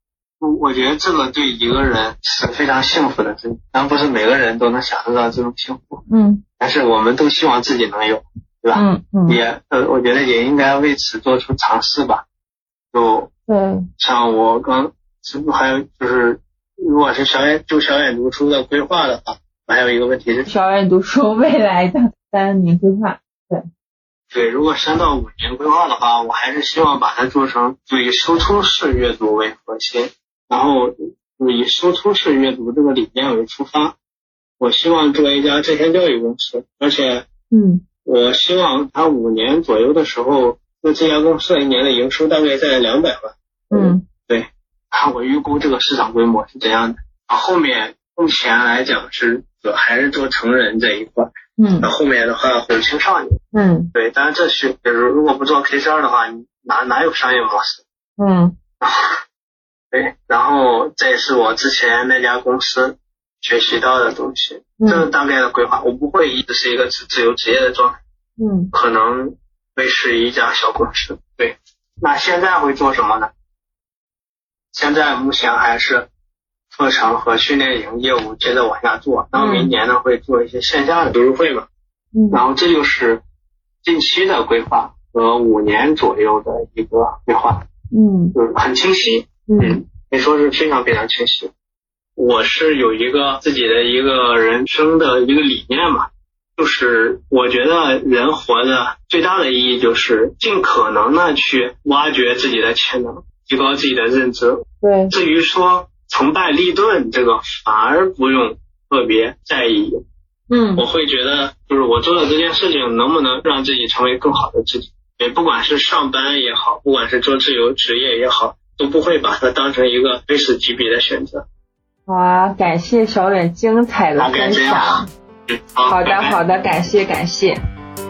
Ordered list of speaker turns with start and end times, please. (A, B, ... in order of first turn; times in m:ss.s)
0:00.4-0:06.0 A
0:06.1-0:06.4 B
0:06.6-0:12.2 A
0:08.7-0:09.4 B
0:12.9-0:13.3 A
0:13.5-0:13.9 B
0:14.0-0:20.5 A
0:20.5-0:23.7 B
0:24.3-0:34.0 A
0:34.6-0:37.2 A
0:37.5-0:37.8 B
0:38.0-0:53.4 A
0:43.7-0:44.0 B
0:51.6-0:51.9 B
0:53.5-0:53.9 B
0:53.9-0:57.8 A
0:58.2-0:58.6 B
0:58.8-0:59.2 A
0:59.9-1:08.0 A
1:04.8-1:05.0 B
1:08.4-1:08.7 B
1:08.7-1:13.3 A
1:14.7-1:16.1 A
1:16.7-1:21.7 A
1:19.4-1:19.7 B
1:22.1-1:22.4 B
1:22.3-1:23.2 A
1:23.8-1:27.6 A
1:27.9-1:28.3 B
1:28.3-1:31.5 A
1:29.5-1:29.8 B
1:32.2-1:50.0 A
1:44.8-1:45.1 B
1:50.5-1:50.8 B
1:50.8-2:01.4 A
2:02.1-2:05.1 B
2:04.2-2:06.4 A
2:05.8-2:07.6 B